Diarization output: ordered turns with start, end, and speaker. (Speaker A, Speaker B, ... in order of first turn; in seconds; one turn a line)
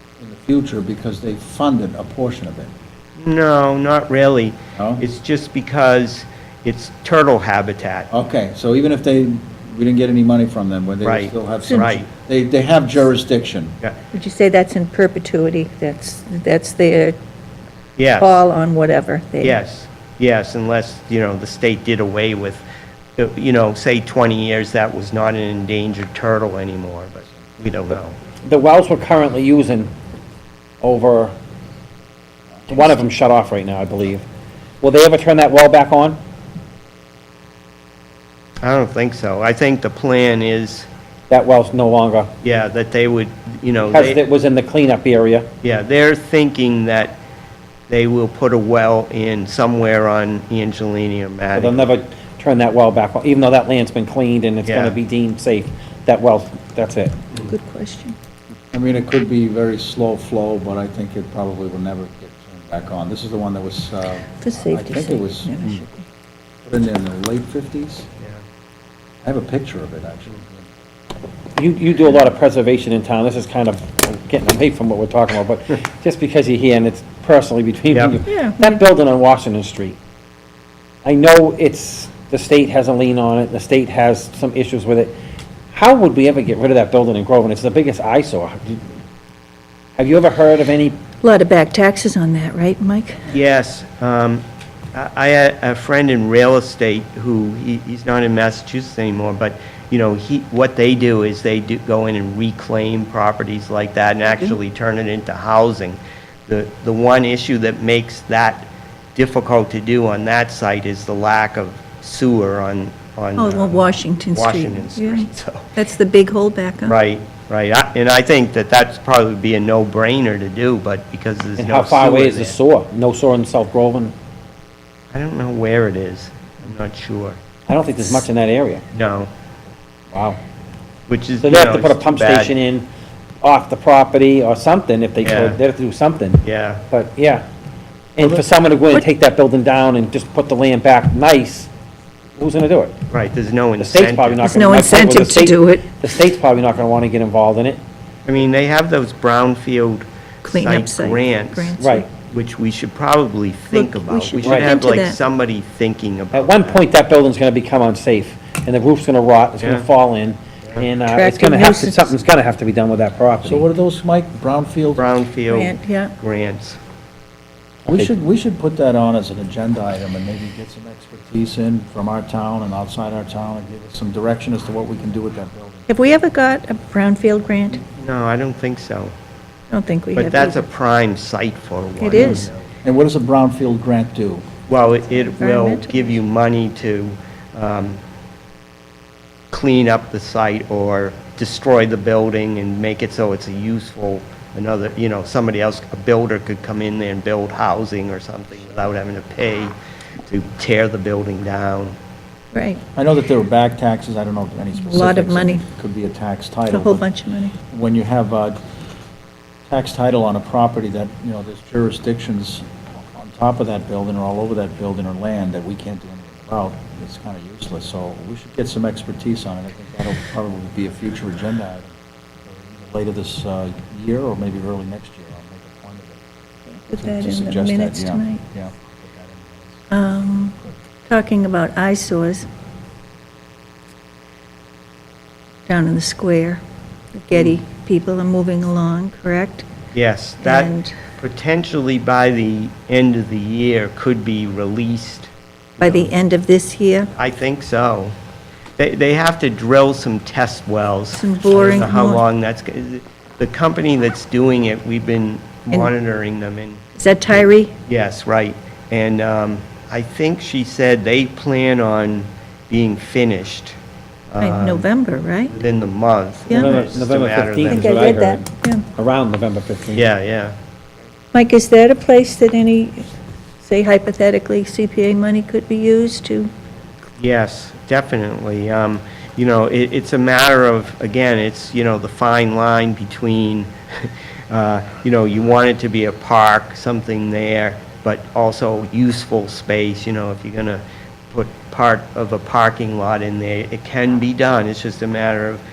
Speaker A: 0.2-2.8
Speaker B: 3.2-8.1
Speaker A: 4.8-5.0
Speaker A: 8.1-13.8
Speaker B: 11.0-12.1
Speaker C: 11.6-11.9
Speaker C: 14.1-17.2
Speaker B: 18.0-18.4
Speaker C: 18.2-19.6
Speaker B: 19.4-22.6
Speaker B: 23.2-28.2
Speaker D: 28.5-29.9
Speaker D: 30.8-31.3
Speaker D: 32.7-34.3
Speaker D: 34.8-36.2
Speaker B: 38.6-40.9
Speaker D: 41.3-42.3
Speaker B: 42.4-44.2
Speaker D: 43.9-45.5
Speaker B: 45.6-47.2
Speaker B: 47.9-51.9
Speaker D: 51.5-57.1
Speaker B: 54.6-55.0
Speaker C: 57.4-58.2
Speaker A: 58.7-65.8
Speaker C: 64.4-66.1
Speaker A: 66.6-68.1
Speaker A: 69.2-70.7
Speaker D: 71.6-80.0
Speaker C: 78.3-78.8
Speaker D: 81.0-85.1
Speaker D: 85.7-88.9
Speaker D: 90.0-91.0
Speaker C: 91.2-93.3
Speaker B: 93.3-115.7
Speaker C: 104.3-104.6
Speaker C: 113.4-117.0
Speaker B: 116.9-122.6
Speaker D: 121.6-124.1
Speaker B: 125.1-127.4
Speaker D: 127.7-128.8
Speaker B: 128.9-129.3
Speaker D: 130.1-130.4
Speaker B: 131.1-132.5
Speaker D: 131.4-132.9
Speaker D: 133.4-137.4
Speaker B: 135.2-135.6
Speaker B: 136.4-136.8
Speaker D: 138.2-141.7
Speaker D: 142.4-143.0
Speaker B: 143.1-145.0
Speaker D: 143.8-147.8
Speaker C: 144.4-146.0
Speaker B: 148.3-156.8
Speaker C: 150.4-152.1
Speaker D: 151.8-152.1
Speaker C: 153.7-155.2
Speaker D: 154.4-154.7
Speaker D: 156.3-163.7
Speaker B: 159.6-159.8
Speaker C: 161.1-162.1
Speaker A: 163.4-165.0
Speaker B: 165.0-166.8
Speaker C: 165.5-166.2
Speaker A: 167.9-175.9
Speaker C: 175.9-177.8
Speaker B: 177.8-179.1
Speaker C: 179.7-180.7
Speaker B: 180.2-182.6
Speaker C: 182.0-182.5
Speaker A: 182.8-184.4
Speaker B: 184.7-188.0
Speaker C: 185.1-186.2
Speaker B: 189.5-199.7
Speaker B: 200.3-202.0
Speaker C: 202.5-202.8
Speaker A: 203.0-207.1
Speaker C: 204.8-205.6
Speaker C: 206.7-207.6
Speaker A: 207.7-208.6
Speaker A: 209.7-226.2
Speaker C: 226.7-228.4
Speaker A: 227.0-229.8
Speaker C: 229.9-232.5
Speaker C: 235.7-236.6
Speaker C: 237.2-239.7
Speaker B: 239.9-246.1
Speaker C: 240.4-241.0
Speaker C: 245.8-247.1
Speaker B: 247.2-248.1
Speaker B: 248.8-256.8
Speaker C: 251.2-252.2
Speaker C: 257.0-257.7
Speaker B: 257.3-263.8
Speaker B: 264.3-264.9
Speaker C: 264.4-265.6
Speaker B: 265.5-268.2
Speaker C: 266.5-266.8
Speaker D: 266.5-270.1
Speaker C: 267.7-268.9
Speaker B: 269.9-270.6
Speaker C: 271.3-273.1
Speaker C: 273.6-276.5
Speaker B: 277.2-295.6